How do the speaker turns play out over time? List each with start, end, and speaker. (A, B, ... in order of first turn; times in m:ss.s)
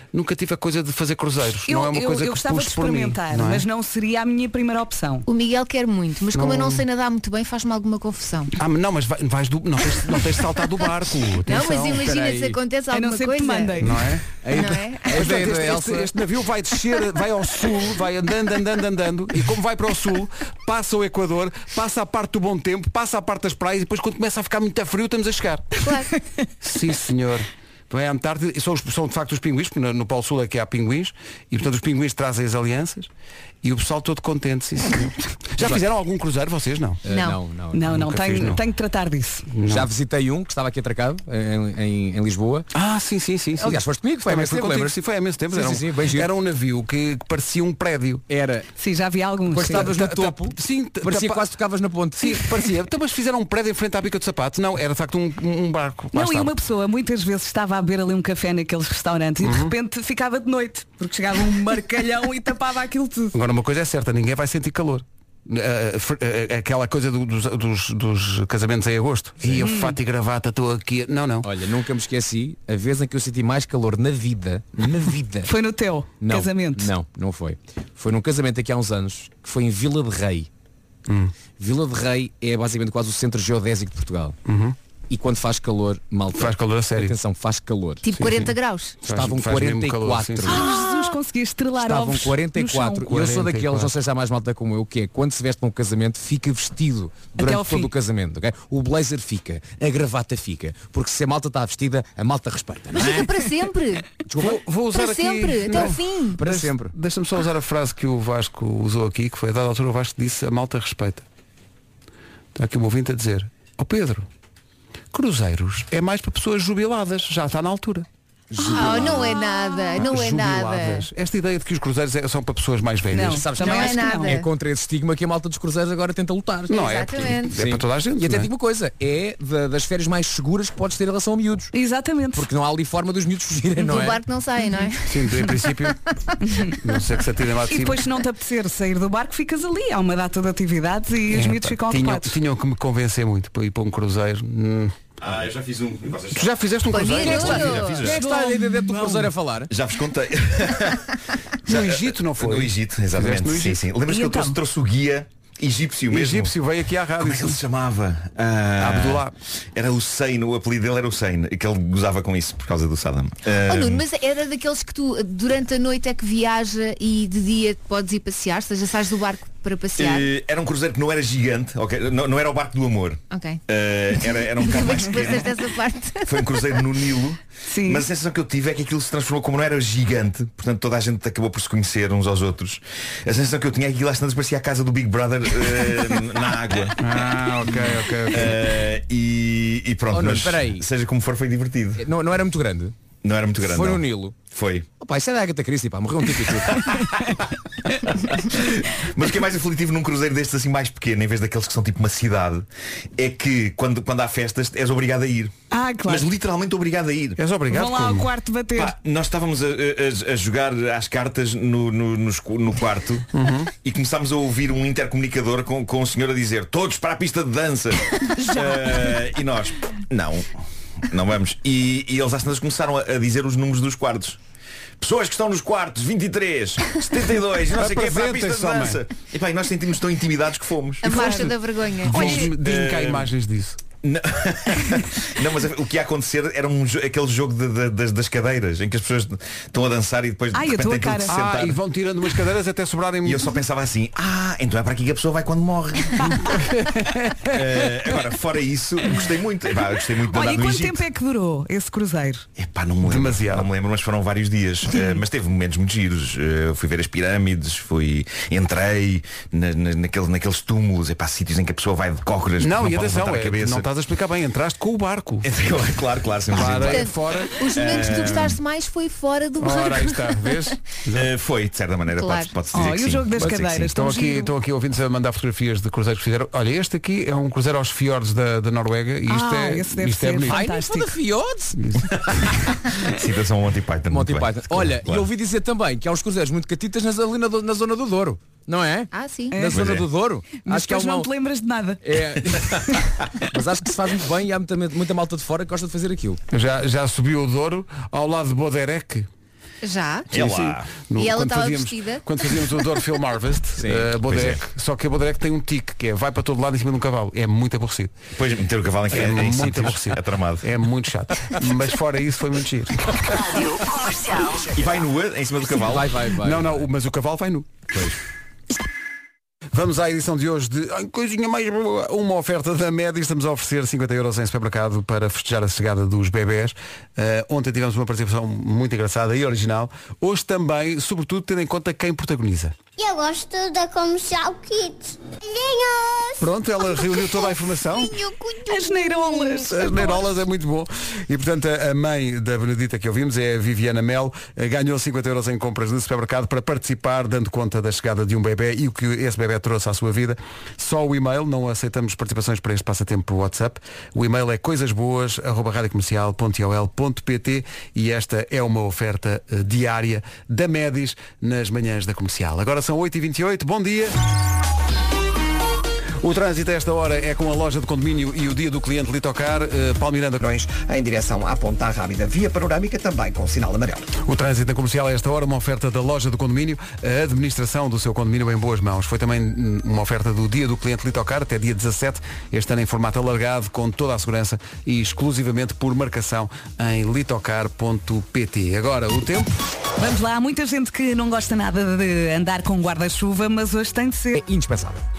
0:00.1-0:03.7 A
0:01.7-0:05.2 B
0:05.3-0:08.5 C
0:06.3-0:06.8 A
0:08.6-0:12.0 A
0:11.4-0:13.9 C
0:12.0-0:12.6 D
0:12.9-0:14.1 B
0:13.8-0:14.2 A
0:14.4-0:16.1 D
0:14.5-0:15.4 C
0:15.1-0:25.8 A
0:25.8-0:26.1 C
0:26.6-0:33.1 A
0:33.6-0:37.0 A
0:37.0-0:38.6 D
0:37.1-0:37.4 C
0:37.7-0:39.5 B
0:37.9-0:38.6 A
0:39.6-0:39.9 A
0:39.7-0:42.7 D
0:42.7-0:48.2 A
0:43.6-0:45.0 D
0:45.5-0:46.3 D
0:48.3-0:48.7 D
0:48.8-0:49.9 B
0:49.5-0:52.6 D
0:49.7-0:51.5 A
0:52.2-0:56.5 A
0:56.1-1:03.3 B
0:59.4-0:59.7 A
1:03.3-1:11.5 A
1:09.6-1:10.0 B
1:11.4-1:15.5 D
1:15.5-1:16.9 B
1:16.2-1:20.5 D
1:21.1-1:21.3 A
1:21.6-1:24.4 D
1:24.5-1:24.8 A
1:25.1-1:28.0 D
1:26.3-1:27.2 A
1:28.0-1:29.0 C
1:28.1-1:28.5 A
1:29.0-1:30.6 A
1:29.1-1:30.8 D
1:30.5-1:33.1 B
1:31.8-1:43.3 D
1:33.1-1:33.9 A
1:37.4-1:37.9 B
1:42.9-1:44.2 C
1:44.2-1:44.6 D
1:44.4-1:51.3 A
1:44.9-1:46.4 C
1:45.9-1:46.9 D
1:52.6-1:54.3 A
1:55.1-1:58.1 A
1:58.5-1:59.4 D
1:58.6-2:01.1 C
1:59.4-1:59.8 B
2:00.0-2:03.5 A
2:03.1-2:04.3 B
2:03.2-2:11.7 D
2:03.6-2:04.5 C
2:06.7-2:08.5 A
2:06.7-2:07.6 C
2:11.7-2:12.5 B
2:12.3-2:14.2 D
2:13.8-2:15.7 C
2:15.1-2:16.0 A
2:16.5-2:16.8 B
2:16.8-2:18.1 A
2:17.7-2:22.4 B
2:21.3-2:25.0 A
2:25.2-2:26.5 E
2:26.3-2:27.9 A
2:26.9-2:28.0 C
2:27.2-2:29.7 D
2:27.6-2:28.2 E
2:28.0-2:29.3 B
2:29.7-2:31.2 E
2:31.6-2:33.8 A
2:31.7-2:36.5 E
2:34.1-2:34.6 B
2:36.1-2:37.6 A
2:37.2-2:44.0 E
2:38.8-2:39.4 A
2:43.6-2:50.3 C
2:50.0-2:55.5 E
2:53.3-2:53.6 C
2:54.1-2:57.0 C
2:56.3-3:07.0 E
2:57.7-2:58.1 B
3:07.0-3:08.7 A
3:08.3-3:12.0 E
3:10.1-3:10.9 D
3:12.0-3:12.9 D
3:13.2-3:14.9 E
3:13.6-3:14.4 D
3:15.0-3:17.0 D
3:16.7-3:17.3 E
3:18.2-3:22.7 E
3:23.2-3:25.5 E
3:25.7-3:26.3 B
3:26.0-3:27.4 E
3:27.4-3:28.3 A
3:27.7-3:29.0 B
3:28.8-3:33.3 E
3:33.3-3:33.7 A
3:33.8-3:40.5 E
3:38.4-3:39.2 B
3:41.1-3:44.4 E
3:45.0-3:51.2 E
3:47.7-3:49.0 A
3:51.0-3:52.5 C
3:51.1-3:51.5 A
3:52.0-3:53.8 A
3:52.2-3:52.4 B
3:52.3-3:53.3 E
3:54.0-4:01.8 E
4:00.5-4:01.4 B
4:01.3-4:03.6 A
4:03.2-4:06.5 E
4:06.4-4:08.1 A
4:07.4-4:11.0 E
4:10.1-4:12.4 B
4:12.6-4:23.9 E
4:13.0-4:13.7 A
4:22.6-4:25.5 A
4:25.4-4:27.1 E
4:26.5-4:28.6 A
4:26.7-4:30.6 C
4:27.7-4:28.6 E
4:29.6-4:31.3 A
4:31.1-4:33.9 E
4:32.1-4:32.5 C
4:32.7-4:34.5 B
4:33.9-4:40.6 A
4:39.3-4:41.1 B
4:40.5-4:41.8 D
4:41.8-4:42.1 A
4:42.2-4:42.4 E
4:43.0-4:45.3 E
4:44.1-4:51.3 D
4:49.1-4:49.6 C
4:49.5-4:49.9 B
4:49.7-4:50.1 E
4:50.6-4:53.0 B
4:52.0-4:53.0 D
4:53.5-4:56.4 D
4:56.5-4:59.3 A
4:59.8-5:00.3 C
5:00.3-5:08.2 A
5:00.3-5:01.0 E
5:01.2-5:02.2 C
5:03.8-5:04.1 D
5:04.2-5:04.6 E
5:08.4-5:10.7 E
5:09.1-5:13.6 A
5:14.6-5:16.2 E
5:15.7-5:16.9 D
5:16.4-5:18.0 A
5:19.7-5:32.8 A
5:33.0-5:40.2 F
5:36.4-5:38.2 A
5:38.7-5:40.3 B
5:39.6-6:04.2 A
6:06.2-6:10.4 A
6:10.4-6:14.1 G
6:14.2-6:29.6 A
6:30.0-6:34.4 B
6:34.4-6:35.0 D